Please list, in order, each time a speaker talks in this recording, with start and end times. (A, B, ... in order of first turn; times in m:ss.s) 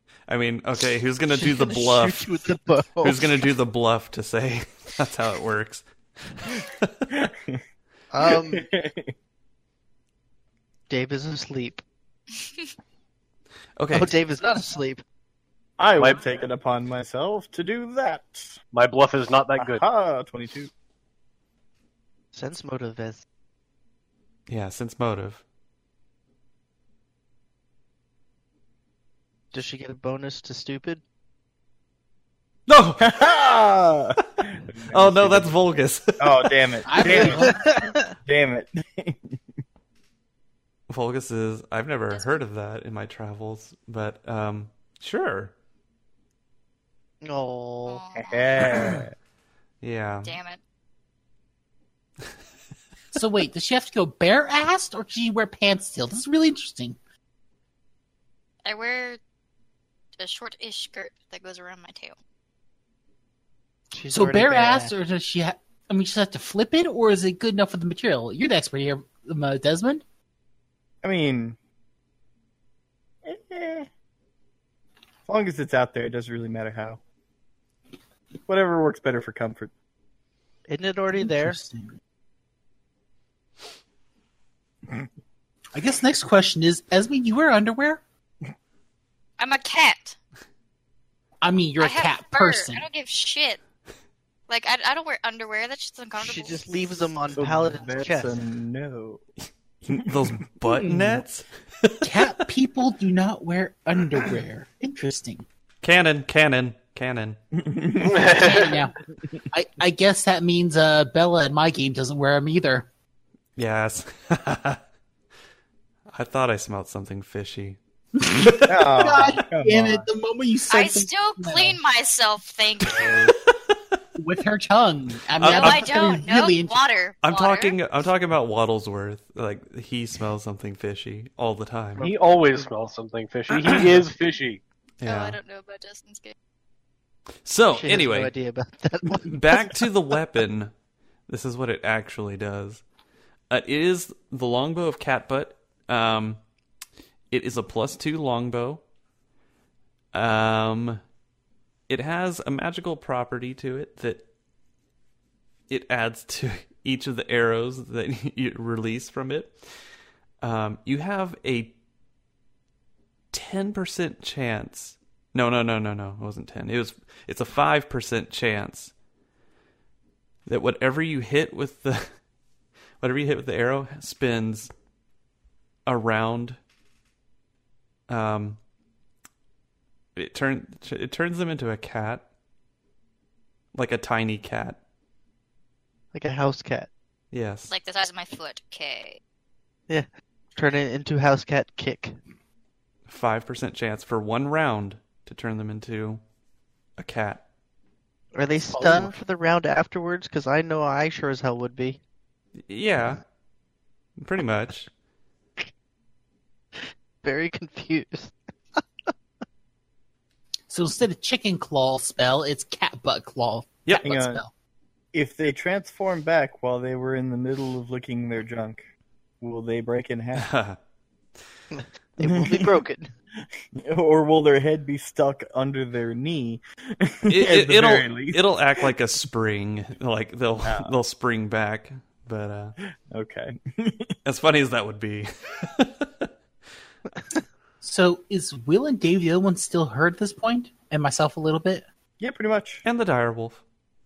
0:00.3-0:02.4 A
0:01.4-0:03.5 B
0:03.0-0:05.8 A
0:06.4-0:06.9 A
0:07.1-0:07.6 C
0:08.1-0:08.6 B
0:08.2-0:09.1 C
0:10.9-0:11.8 B
0:13.8-0:14.1 A
0:13.9-0:15.0 B
0:15.8-0:18.6 C
0:18.7-0:19.8 D
0:19.6-0:20.7 C
0:22.3-0:23.2 B
0:24.5-0:25.4 A
0:29.5-0:31.0 B
0:32.7-0:33.2 A
0:33.0-0:35.6 C
0:34.9-0:36.9 A
0:36.2-0:39.3 C
0:36.9-0:37.6 E
0:37.3-0:38.1 B
0:40.9-0:45.5 A
0:42.1-0:42.3 F
0:47.2-0:48.0 B
0:47.8-0:48.5 F
0:48.1-0:49.1 C
0:49.8-0:50.3 A
0:50.2-0:50.6 F
0:53.1-0:57.0 E
0:58.6-0:59.2 F
1:00.2-1:02.1 F
1:03.9-1:04.9 B
1:04.1-1:10.0 E
1:11.0-1:11.6 C
1:13.2-1:13.9 C
1:15.2-1:17.0 C
1:18.4-1:19.7 C
1:20.7-1:21.6 B
1:21.1-1:22.0 E
1:25.7-1:28.0 E
1:29.4-1:30.2 F
1:31.4-1:32.8 E
1:31.8-1:33.6 F
1:34.5-1:37.1 F
1:36.2-1:38.4 B
1:37.3-1:39.2 C
1:39.8-1:42.4 A
1:40.6-1:41.2 E
1:42.0-1:45.4 E
1:45.8-1:47.4 A
1:47.5-1:48.7 C
1:48.0-1:48.8 D
1:48.3-1:48.9 E
1:49.5-1:52.9 E
1:53.6-1:54.8 A
1:56.1-1:57.8 A
1:58.2-2:01.8 E
1:58.6-2:00.1 C
2:00.7-2:03.2 F
2:04.2-2:06.7 E
2:05.4-2:05.9 A
2:05.4-2:07.8 F
2:07.2-2:12.1 A
2:12.0-2:14.6 D
2:15.0-2:15.4 A
2:15.0-2:16.3 F
2:17.4-2:18.3 A
2:17.7-2:19.8 B
2:19.2-2:20.7 A
2:21.3-2:22.8 A
2:23.5-2:26.4 A
2:27.3-2:28.8 A
2:30.1-2:31.0 A
2:31.9-2:34.2 A
2:35.7-2:39.6 A
2:40.4-2:41.7 A
2:43.3-2:48.9 A
2:50.4-2:52.1 A
2:53.0-2:54.7 A
2:55.8-2:56.6 A
2:58.1-2:58.6 A
3:00.2-3:02.2 A
3:03.7-3:04.8 A
3:06.1-3:06.9 B
3:07.3-3:07.7 A
3:07.7-3:09.2 F
3:09.9-3:12.2 B
3:13.1-3:16.2 A
3:17.0-3:17.4 A
3:18.3-3:22.0 B
3:18.7-3:19.0 E
3:22.7-3:23.2 A
3:24.2-3:24.9 A
3:26.8-3:28.8 B
3:30.7-3:34.5 E
3:34.0-3:34.4 C
3:35.1-3:38.8 C
3:39.4-3:40.5 C
3:40.4-3:40.8 A
3:41.7-3:43.1 B
3:42.2-3:42.7 C
3:43.7-3:48.4 C
3:47.3-3:52.7 A
3:50.6-3:50.9 C
3:53.1-3:54.1 C
3:54.2-3:56.3 A
3:57.1-3:57.4 B
3:57.8-4:01.8 E
4:02.2-4:02.8 C
4:02.8-4:03.6 A